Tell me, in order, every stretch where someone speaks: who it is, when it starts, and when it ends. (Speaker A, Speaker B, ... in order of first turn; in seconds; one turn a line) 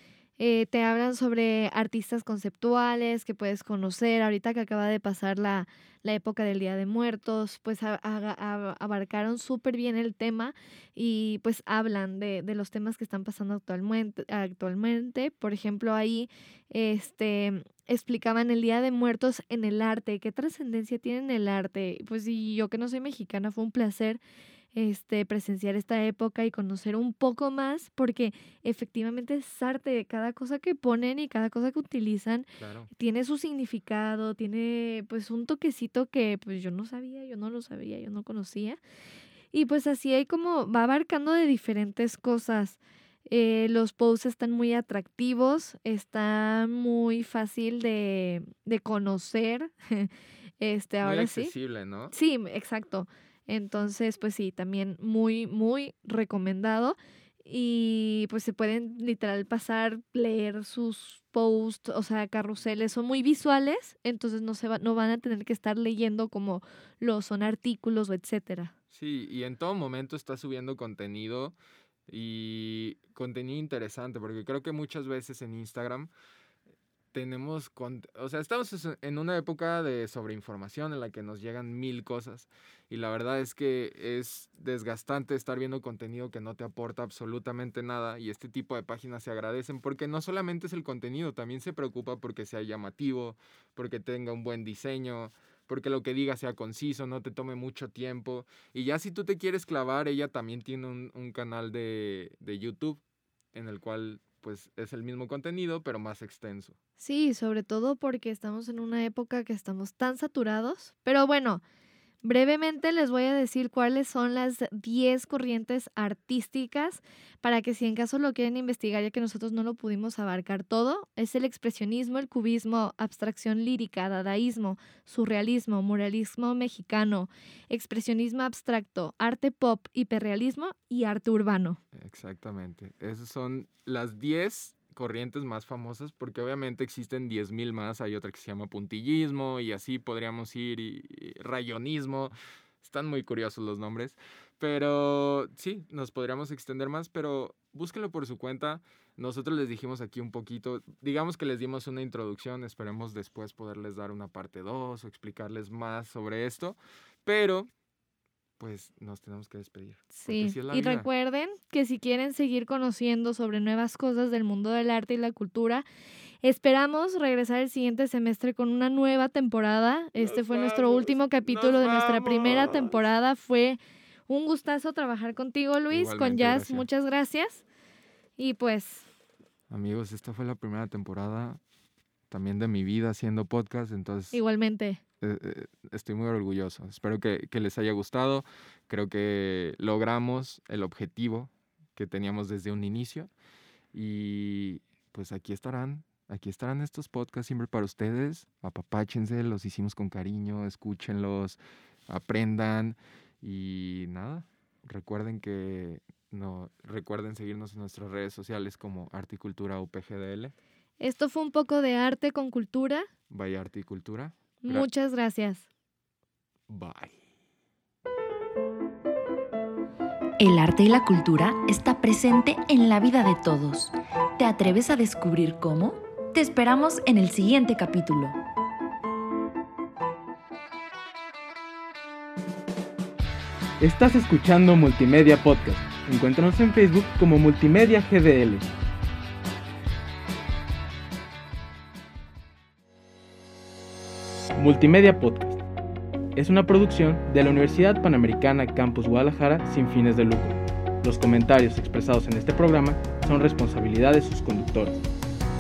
Speaker A: 0.4-24.2
Speaker A: 24.7-38.8
Speaker B: 32.6-32.9
Speaker A: 39.5-51.5
Speaker B: 51.0-52.1
Speaker A: 52.1-68.7
Speaker B: 68.9-71.6
Speaker B: 72.1-76.1
Speaker B: 77.1-103.0
Speaker B: 103.5-106.8
Speaker A: 107.0-111.6
Speaker A: 112.2-131.8
Speaker B: 131.9-157.7
Speaker B: 158.6-161.1
Speaker A: 160.1-165.8
Speaker A: 166.4-177.7
Speaker B: 170.2-173.0
Speaker B: 175.9-176.9
Speaker A: 178.4-179.1
Speaker B: 179.7-181.6
Speaker B: 182.3-184.4
Speaker A: 184.3-185.0
Speaker B: 185.2-193.3
Speaker B: 193.9-210.6
Speaker A: 211.0-213.1
Speaker B: 213.3-214.9
Speaker A: 214.6-215.7
Speaker B: 216.7-217.2
Speaker C: 220.4-228.4
Speaker D: 233.8-238.7
Speaker D: 244.6-245.6
Speaker D: 246.3-255.0